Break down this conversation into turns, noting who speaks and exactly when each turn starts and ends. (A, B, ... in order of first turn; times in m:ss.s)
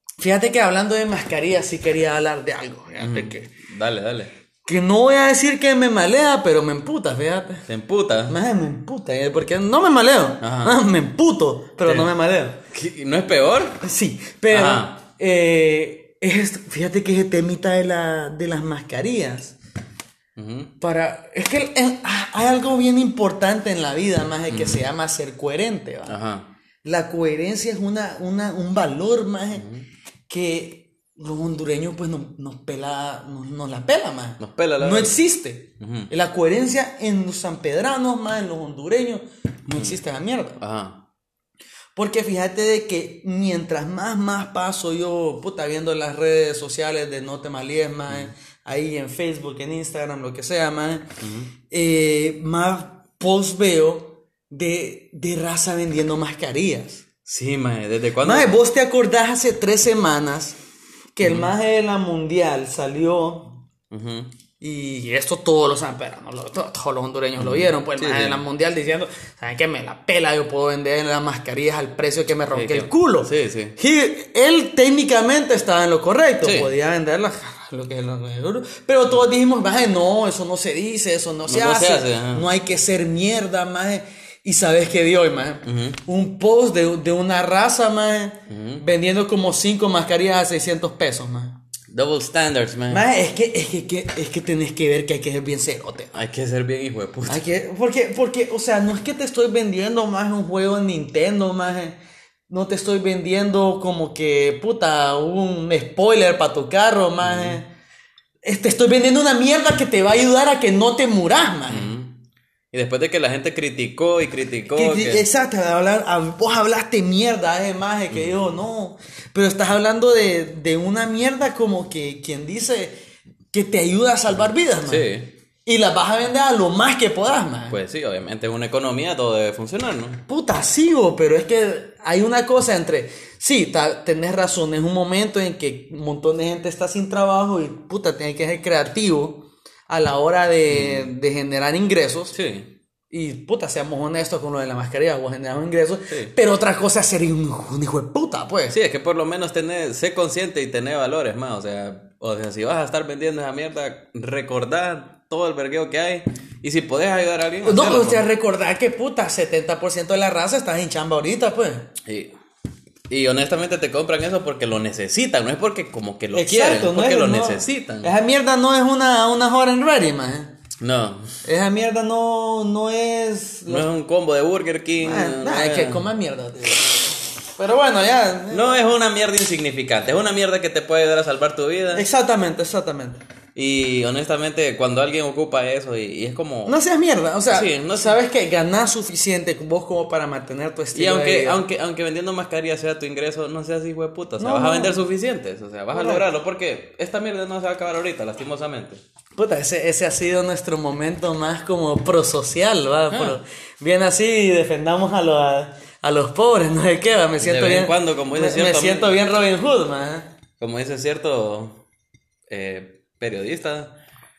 0:00.2-0:03.5 A
0:03.0-0:04.3 B
0:04.6-0:07.6 A
0:07.7-0:08.3 B
0:08.3-0:12.6 A
0:10.4-0:10.8 B
0:11.8-0:12.1 B
0:12.7-0:13.8 B
0:13.8-0:19.5 A
0:14.5-0:15.0 B
0:20.4-0:20.7 B
0:20.8-0:26.2 A
0:24.5-0:24.8 B
0:26.0-0:26.5 B
0:26.8-0:29.7 A
0:29.5-0:29.8 B
0:30.3-0:40.6 A
0:34.4-0:35.2 B
0:35.8-0:36.1 B
0:39.7-0:40.0 B
0:40.6-0:41.0 B
0:42.0-0:51.0 A
0:51.2-0:51.5 B
0:51.7-0:57.0 A
0:57.2-0:58.6 B
0:58.2-1:00.6 A
1:01.2-1:03.6 A
1:01.2-1:01.5 B
1:03.9-1:04.3 B
1:04.6-1:31.6 A
1:07.4-1:08.4 B
1:12.5-1:13.8 B
1:16.4-1:16.7 B
1:21.5-1:22.5 B
1:25.6-1:26.0 B
1:28.5-1:28.8 B
1:31.9-1:33.0 B
1:32.9-1:36.1 A
1:36.1-1:37.4 B
1:37.2-1:42.0 A
1:42.5-1:47.6 A
1:47.2-1:47.6 B
1:48.4-1:51.9 A
1:51.7-1:52.2 B
1:52.7-1:55.2 B
1:54.7-2:02.9 A
1:58.1-1:58.6 B
2:03.5-2:05.1 A
2:04.8-2:05.3 B
2:05.6-2:07.8 A
2:07.7-2:10.2 B
2:10.3-2:22.3 A
2:20.7-2:21.1 B
2:22.3-2:22.7 B
2:23.1-2:28.8 A
2:28.7-2:38.2 B
2:37.6-2:41.9 A
2:42.0-2:42.3 B
2:43.1-2:48.1 B
2:46.3-2:50.5 A
2:50.8-2:51.3 B
2:51.4-2:53.9 A
2:53.7-2:56.1 B
2:55.0-2:58.8 A
2:58.5-3:02.0 B
3:01.9-3:03.2 A
3:03.5-3:06.8 B
3:06.6-3:11.6 A
3:07.5-3:08.2 B
3:10.9-3:19.0 B
3:14.4-3:15.0 A
3:15.9-3:16.2 A
3:19.4-3:30.3 A
3:23.1-3:23.4 B
3:27.4-3:29.2 B
3:30.6-3:31.8 B
3:32.5-3:33.9 B